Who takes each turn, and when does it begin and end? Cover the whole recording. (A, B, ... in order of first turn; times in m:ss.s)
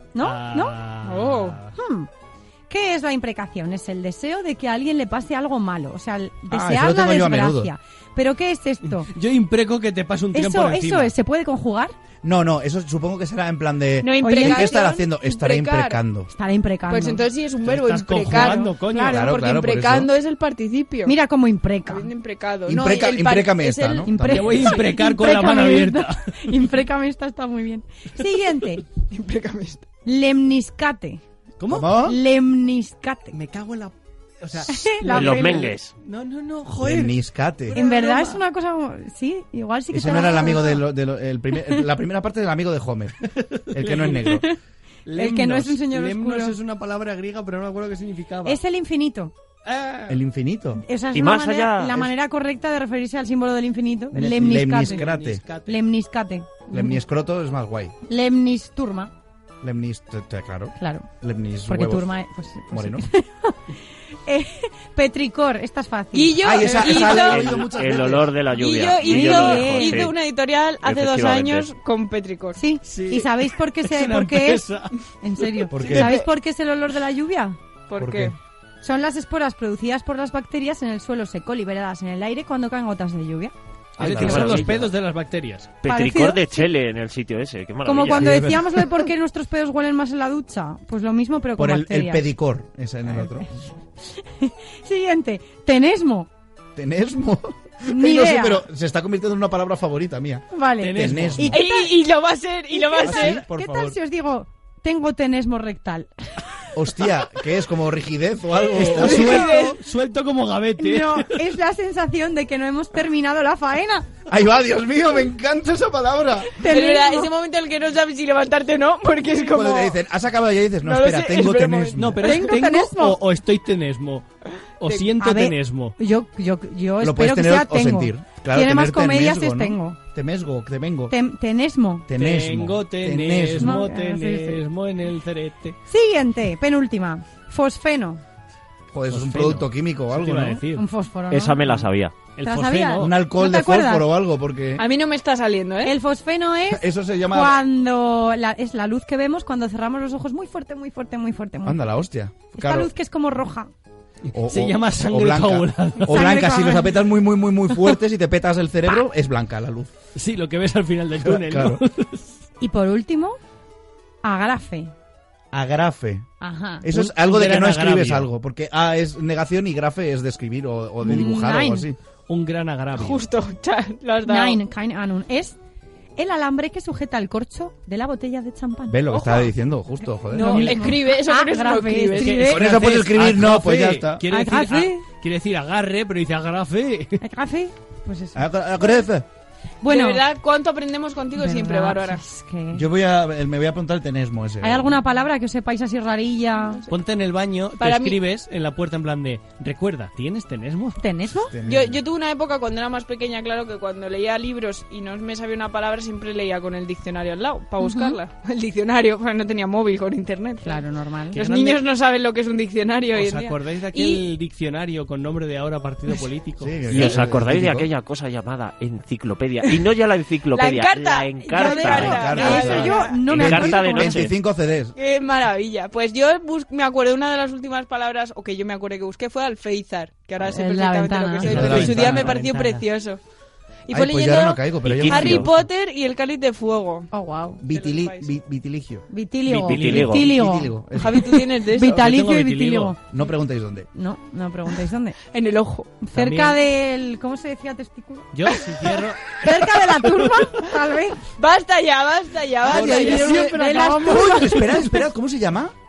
0:00.1-0:00.8 A
0:00.2-0:01.7 B
0:01.0-0:01.6 C
0:01.7-0:02.1 A
0:02.7-0:09.1 A
0:06.5-0:07.7 D
0:08.9-0:11.1 B
0:10.3-0:12.0 A
0:12.2-0:16.3 D
0:14.0-0:16.0 C
0:14.2-0:14.8 A
0:16.3-0:17.2 A
0:16.9-0:21.1 C
0:17.6-0:19.2 B
0:18.3-0:19.2 A
0:19.0-0:20.1 D
0:21.0-0:22.1 A
0:21.9-0:24.1 C
0:22.7-0:24.7 D
0:24.0-0:28.8 A
0:24.3-0:26.7 B
0:29.1-0:29.8 C
0:30.0-0:31.2 A
0:31.6-0:31.9 B
0:31.7-0:32.1 D
0:32.0-0:33.4 A
0:33.3-0:38.4 B
0:34.7-0:35.7 A
0:35.1-0:35.9 E
0:36.8-0:37.8 D
0:37.7-0:40.8 A
0:39.9-0:43.2 D
0:43.4-0:44.3 B
0:43.7-0:44.4 D
0:44.2-0:44.6 A
0:45.0-0:48.6 B
0:45.2-0:46.6 A
0:48.4-0:49.3 A
0:49.6-0:50.2 B
0:50.1-0:50.8 D
0:50.8-0:55.0 A
0:51.1-0:52.1 E
0:54.1-0:55.4 D
0:54.7-0:55.8 B
0:55.7-0:57.0 A
0:56.7-0:57.9 D
0:58.1-0:59.1 A
0:59.6-1:02.1 D
1:00.8-1:01.1 A
1:01.7-1:03.7 A
1:02.7-1:03.0 D
1:04.3-1:06.6 A
1:06.1-1:07.7 C
1:06.4-1:08.3 D
1:06.9-1:10.2 E
1:08.5-1:12.6 C
1:09.1-1:10.1 A
1:10.8-1:11.7 E
1:12.6-1:14.7 A
1:12.8-1:15.9 B
1:15.2-1:17.6 A
1:15.7-1:16.2 D
1:17.9-1:18.4 C
1:18.0-1:18.3 D
1:18.8-1:24.7 A
1:24.0-1:24.7 D
1:24.0-1:24.9 E
1:24.0-1:25.8 B
1:25.8-1:28.4 E
1:25.8-1:26.7 A
1:27.8-1:32.3 A
1:28.1-1:29.1 D
1:31.6-1:33.6 D
1:33.1-1:33.5 A
1:34.1-1:36.3 A
1:36.8-1:41.6 D
1:37.9-1:38.6 A
1:40.5-1:41.9 A
1:40.8-1:41.6 B
1:41.5-1:43.4 C
1:42.7-1:46.1 A
1:43.0-1:44.0 D
1:46.7-1:49.5 D
1:48.7-1:51.4 B
1:49.0-1:49.8 C
1:50.8-1:54.0 A
1:54.3-1:56.5 D
1:56.6-1:57.3 A
1:56.6-2:00.0 C
1:59.4-2:02.3 D
2:00.8-2:02.0 C
2:02.0-2:04.3 B
2:02.2-2:03.2 A
2:04.8-2:06.0 B
2:05.2-2:10.0 A
2:07.0-2:11.1 D
2:11.1-2:12.1 A
2:12.1-2:13.8 D
2:12.1-2:15.8 B
2:13.6-2:14.6 A
2:15.9-2:18.2 A
2:18.9-2:20.6 D
2:19.1-2:20.9 B
2:20.7-2:21.9 A
2:21.3-2:22.2 E
2:22.3-2:23.1 B
2:22.4-2:24.1 A
2:23.0-2:24.8 D
2:24.8-2:25.9 C
2:25.8-2:31.8 A
2:26.7-2:27.6 D
2:31.6-2:32.9 D
2:32.6-2:33.7 A
2:34.3-2:39.9 D
2:34.4-2:36.1 B
2:36.1-2:37.0 A
2:40.2-2:42.3 B
2:41.2-2:41.8 D
2:42.6-2:43.4 A
2:44.2-2:44.9 A
2:45.5-2:46.3 D
2:46.4-2:46.9 A
2:46.8-2:52.0 D
2:46.9-2:48.3 B
2:51.0-2:51.9 A
2:52.3-2:53.2 B
2:53.0-2:54.6 C
2:54.2-2:55.6 A
2:56.2-2:59.4 A
2:58.9-3:00.7 D
3:00.3-3:02.7 A
3:00.3-3:02.3 C
3:02.2-3:07.2 B
3:02.5-3:04.2 D
3:04.3-3:05.0 A
3:07.2-3:09.0 A
3:08.3-3:09.3 D
3:09.8-3:10.2 A
3:09.9-3:12.2 C
3:11.4-3:12.9 A
3:12.7-3:15.0 D
3:14.6-3:16.8 A
3:16.9-3:21.0 B
3:17.8-3:18.2 C
3:21.0-3:21.5 A
3:21.5-3:22.0 D
3:21.7-3:34.3 C
3:27.8-3:28.2 A
3:30.6-3:31.4 A
3:31.3-3:31.8 B
3:33.1-3:37.1 B
3:36.6-3:37.9 D
3:36.9-3:44.3 E
3:40.5-3:43.2 C
3:41.5-3:44.2 A
3:41.9-3:45.0 D
3:45.0-3:53.2 C
3:50.4-3:52.7 A
3:51.4-3:52.6 D
3:53.9-3:57.1 C
3:53.9-3:55.5 D
3:54.8-3:55.5 E
3:57.1-3:57.6 A
3:57.6-3:59.0 D
3:57.7-3:58.3 C
3:59.1-4:01.0 A
3:59.5-4:00.1 B
3:59.7-4:00.2 E
3:59.7-4:01.4 D
4:01.0-4:02.0 C
4:01.7-4:03.0 A
4:01.8-4:03.0 B
4:03.1-4:03.9 D
4:04.0-4:05.2 A
4:05.3-4:05.9 C
4:06.0-4:08.6 A
4:06.1-4:06.6 B
4:08.3-4:10.4 B
4:09.3-4:11.2 A
4:11.4-4:13.4 C
4:12.7-4:14.6 B
4:12.7-4:15.7 D
4:12.9-4:15.0 A